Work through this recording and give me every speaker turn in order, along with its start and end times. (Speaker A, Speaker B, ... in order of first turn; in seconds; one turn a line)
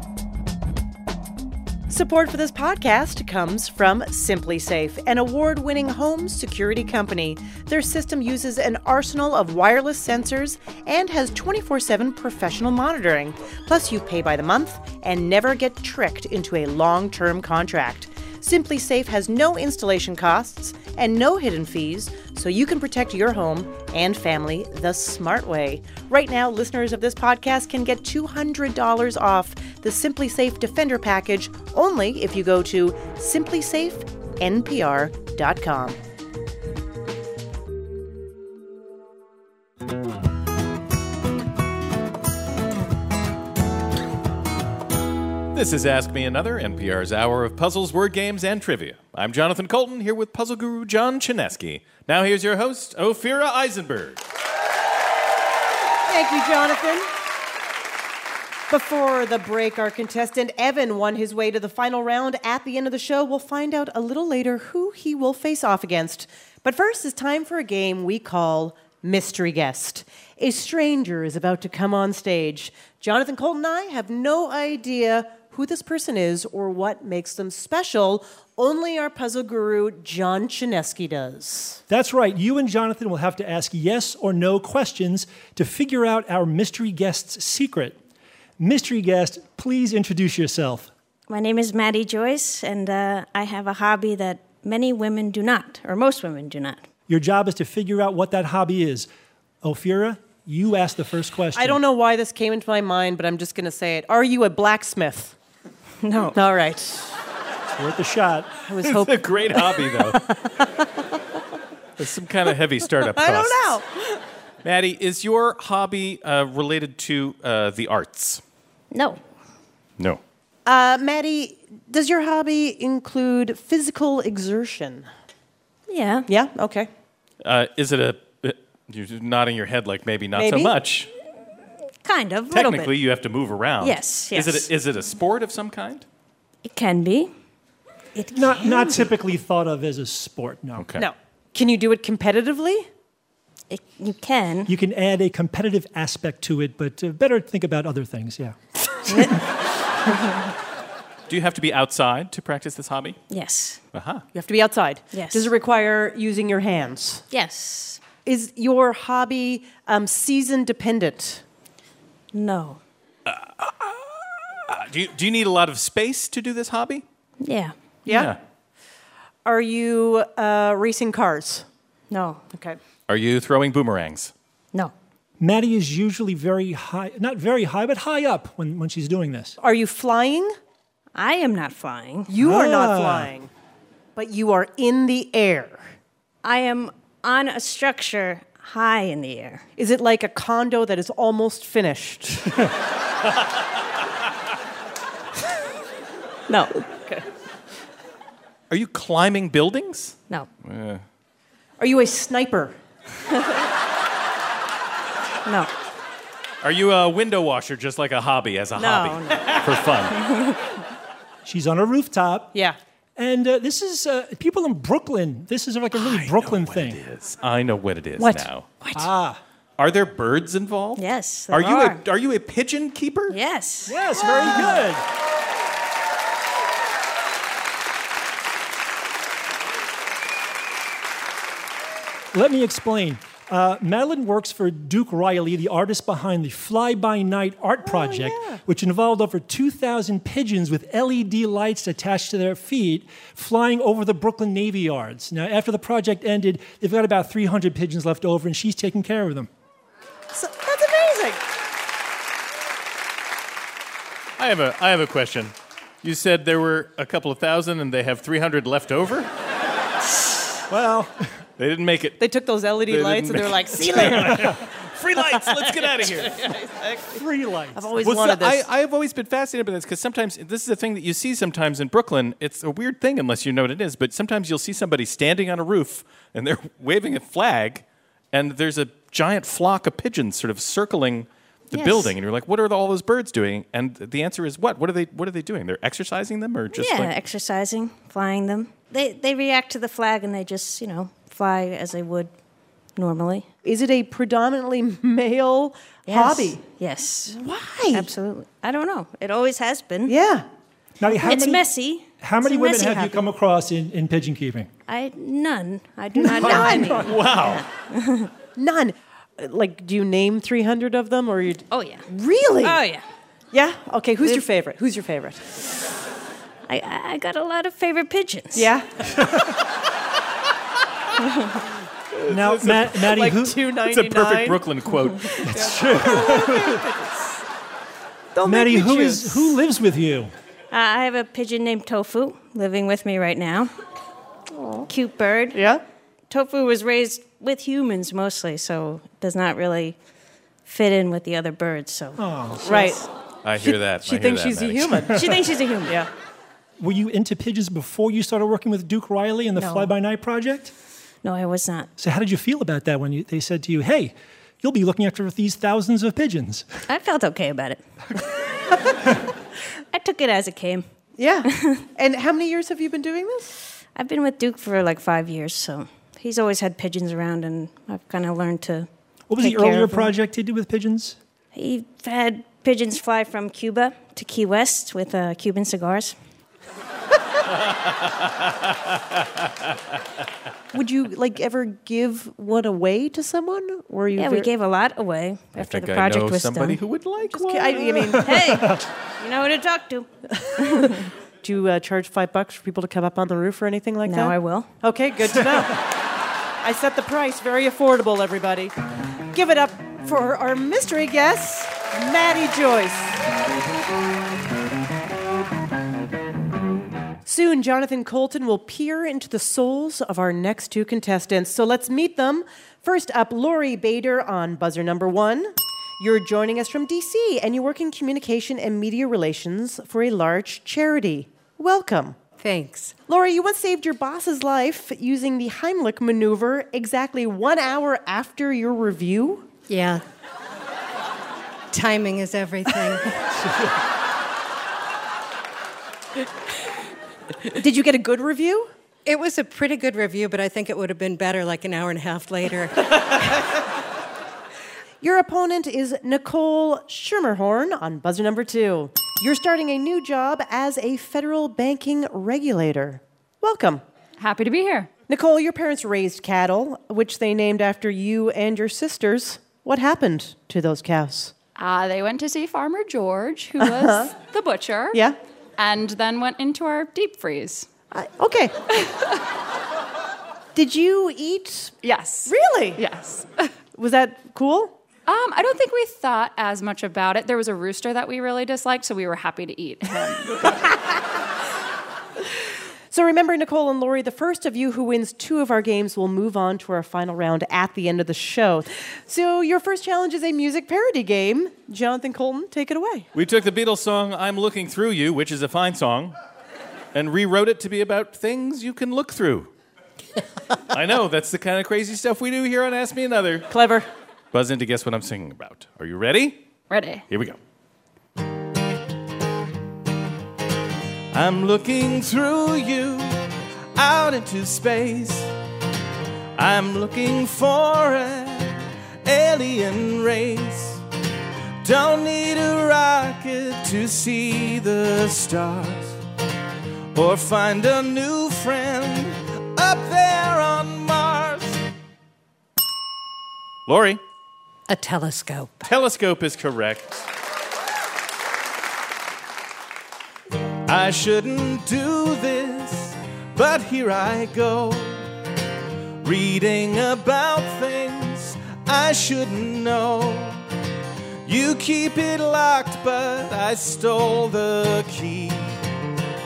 Speaker A: 1.9-36.0
Speaker B: 45.5-54.2
Speaker A: 56.1-57.1
Speaker A: 58.7-81.8
Speaker C: 81.9-88.0
Speaker C: 88.6-90.9
Speaker D: 91.3-96.8
Speaker C: 97.1-99.1
Speaker C: 99.6-101.8
Speaker A: 101.5-105.4
Speaker D: 106.0-106.4
Speaker A: 106.3-107.2
Speaker C: 107.8-108.5
Speaker A: 108.7-110.2
Speaker B: 108.9-110.2
Speaker B: 112.0-113.6
Speaker A: 113.1-113.9
Speaker B: 114.6-118.4
Speaker D: 118.9-119.2
Speaker A: 120.7-125.1
Speaker D: 125.9-126.3
Speaker A: 126.3-126.9
Speaker B: 127.4-131.1
Speaker A: 130.3-130.8
Speaker D: 132.0-133.0
Speaker B: 132.5-136.1
Speaker D: 133.8-134.7
Speaker D: 136.6-137.3
Speaker D: 138.2-139.0
Speaker C: 138.3-140.9
Speaker B: 140.8-141.1
Speaker A: 141.0-142.9
Speaker D: 143.7-144.7
Speaker C: 144.7-148.6
Speaker D: 149.1-149.4
Speaker C: 149.1-149.4
Speaker B: 151.3-153.2
Speaker D: 153.3-153.8
Speaker B: 153.9-154.2
Speaker A: 154.3-157.2
Speaker D: 155.1-155.5
Speaker D: 157.3-158.0
Speaker A: 158.2-161.4
Speaker D: 162.3-162.8
Speaker B: 163.3-167.0
Speaker D: 167.4-167.7
Speaker A: 168.1-168.3
Speaker B: 168.1-168.4
Speaker A: 169.4-171.7
Speaker D: 172.1-172.4
Speaker A: 172.5-172.8
Speaker B: 173.1-174.3
Speaker C: 175.4-179.6
Speaker A: 179.6-180.5
Speaker D: 181.2-182.3
Speaker A: 182.3-183.5
Speaker C: 182.4-183.3
Speaker A: 184.2-185.9
Speaker D: 186.4-189.6
Speaker A: 189.8-192.5
Speaker D: 196.5-196.8
Speaker B: 198.7-201.0
Speaker A: 201.8-202.8
Speaker D: 205.4-205.7
Speaker B: 206.6-210.2
Speaker D: 208.8-210.6
Speaker C: 211.4-212.5
Speaker C: 213.2-217.0
Speaker B: 215.9-218.7
Speaker A: 218.2-218.5
Speaker D: 218.8-219.1
Speaker C: 218.9-219.4
Speaker B: 219.8-223.4
Speaker D: 221.0-222.0
Speaker D: 223.3-224.6
Speaker C: 223.9-225.0
Speaker C: 232.3-249.5
Speaker A: 237.8-238.6
Speaker A: 250.3-251.4
Speaker B: 254.4-259.3
Speaker C: 260.7-261.2
Speaker B: 261.6-262.2
Speaker A: 262.2-264.6
Speaker B: 262.7-266.6
Speaker A: 266.4-267.0
Speaker C: 267.1-267.8
Speaker A: 267.8-268.7
Speaker B: 268.0-287.1
Speaker D: 286.7-292.3
Speaker D: 293.0-293.5
Speaker A: 293.6-296.6
Speaker D: 296.1-300.2
Speaker A: 297.3-298.1
Speaker A: 300.1-300.4
Speaker C: 301.0-301.7
Speaker D: 301.2-303.2
Speaker C: 302.2-304.7
Speaker D: 304.9-308.3
Speaker C: 306.2-307.1
Speaker A: 306.3-307.0
Speaker B: 307.1-307.6
Speaker A: 308.6-312.8
Speaker D: 311.7-312.1
Speaker D: 312.6-313.0
Speaker A: 313.5-315.5
Speaker D: 316.7-318.7
Speaker A: 318.6-318.9
Speaker D: 321.2-321.5
Speaker B: 322.1-323.0
Speaker C: 322.3-323.6
Speaker A: 322.9-324.6
Speaker B: 323.9-325.5
Speaker C: 325.4-326.8
Speaker A: 325.4-327.3
Speaker A: 328.3-329.6
Speaker C: 328.4-330.3
Speaker D: 330.7-333.7
Speaker A: 334.6-334.9
Speaker D: 334.9-335.6
Speaker A: 335.5-335.8
Speaker D: 336.3-340.0
Speaker D: 340.6-343.0
Speaker C: 342.2-342.6
Speaker A: 342.7-343.1
Speaker B: 343.4-345.1
Speaker A: 343.6-345.2
Speaker D: 345.1-346.0
Speaker C: 346.8-350.7
Speaker D: 349.6-349.9
Speaker D: 351.2-351.9
Speaker C: 352.0-356.7
Speaker D: 356.9-359.3
Speaker D: 359.9-360.9
Speaker A: 361.2-363.5
Speaker D: 361.5-361.8
Speaker D: 363.9-368.9
Speaker C: 369.3-371.2
Speaker D: 369.4-370.1
Speaker D: 371.5-376.1
Speaker A: 380.7-384.5
Speaker D: 384.2-386.8
Speaker B: 385.6-388.1
Speaker A: 387.3-388.3
Speaker D: 388.2-391.1
Speaker C: 388.2-388.8
Speaker A: 391.4-395.8
Speaker D: 394.1-394.7
Speaker A: 396.6-398.7
Speaker A: 399.3-403.2
Speaker A: 407.3-422.2
Speaker E: 422.4-422.9
Speaker A: 423.1-429.5
Speaker E: 429.7-430.0
Speaker E: 431.7-433.2
Speaker A: 437.5-438.7
Speaker E: 439.1-443.5
Speaker A: 445.0-453.8
Speaker F: 454.2-454.9
Speaker A: 455.1-461.3
Speaker F: 461.6-465.0
Speaker A: 463.6-464.1
Speaker F: 465.6-467.7
Speaker A: 467.9-468.6
Speaker A: 470.6-472.8
Speaker F: 471.8-473.4
Speaker A: 473.8-474.8
Speaker F: 475.1-480.4
Speaker A: 482.9-493.1
Speaker B: 493.1-496.1
Speaker B: 496.9-499.5
Speaker B: 500.7-503.5
Speaker A: 503.5-503.9
Speaker B: 504.3-506.4
Speaker F: 506.7-507.0
Speaker B: 507.1-507.4
Speaker B: 511.1-513.2
Speaker B: 513.8-515.3
Speaker B: 516.4-520.8
Speaker B: 521.6-526.0
Speaker B: 527.0-531.6
Speaker B: 533.7-534.0
Speaker E: 534.7-535.7
Speaker B: 535.6-537.0
Speaker B: 540.7-545.0
Speaker B: 546.0-550.4
Speaker B: 551.3-555.5